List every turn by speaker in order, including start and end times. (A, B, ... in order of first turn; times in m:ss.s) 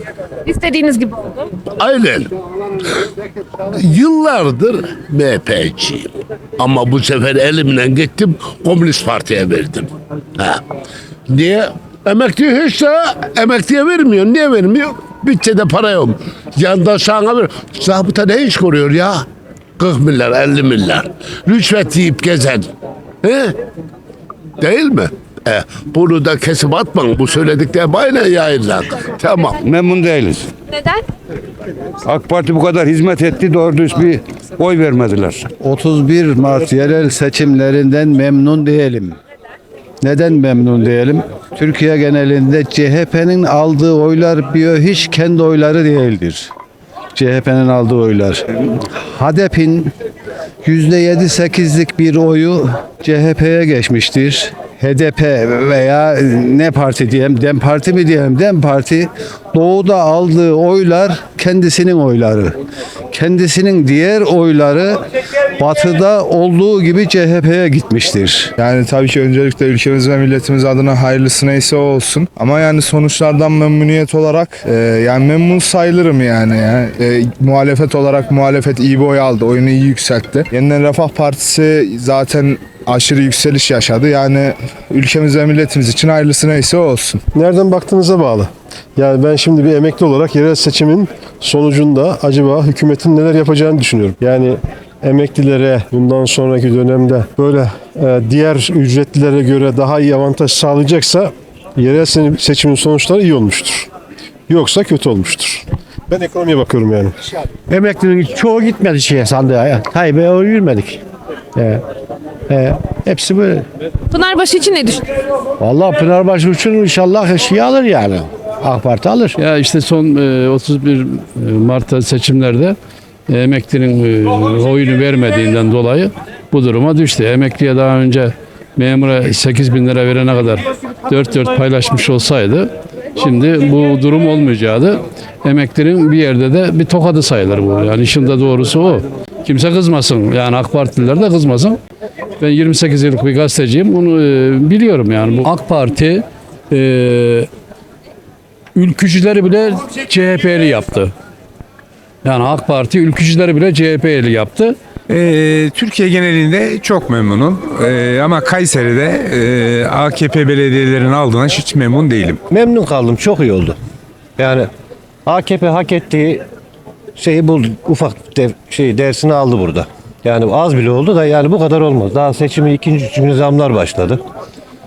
0:00.4-0:01.5 A
0:01.8-0:02.3 B
0:03.6-0:10.6 B
0:11.3-0:19.2 B
0:19.8-0:22.7 B
0:23.2-0:23.6 B
0:24.6-0:29.6 B
0:29.6-0:30.4 C
0:32.0-0:35.4 C
0:35.6-0:39.2 D
0:40.0-0:46.5 D
0:47.1-0:49.9 D
0:50.6-1:02.5 D
1:03.1-1:05.0 D
1:05.6-1:08.5 D
1:08.6-1:27.2 E
1:27.3-1:43.9 F
1:44.5-1:47.1 F
1:49.0-1:49.4 C
1:54.1-1:55.1 A
1:56.8-1:57.1 C
1:59.4-2:02.8 G
2:03.3-2:21.8 G
2:22.4-2:27.5 G
2:28.7-2:31.1 G
2:32.2-2:34.8 G
2:35.1-2:42.4 H
2:42.5-2:43.8 I
2:44.4-2:44.7 I
2:45.2-2:46.4 I
2:47.2-2:54.2 I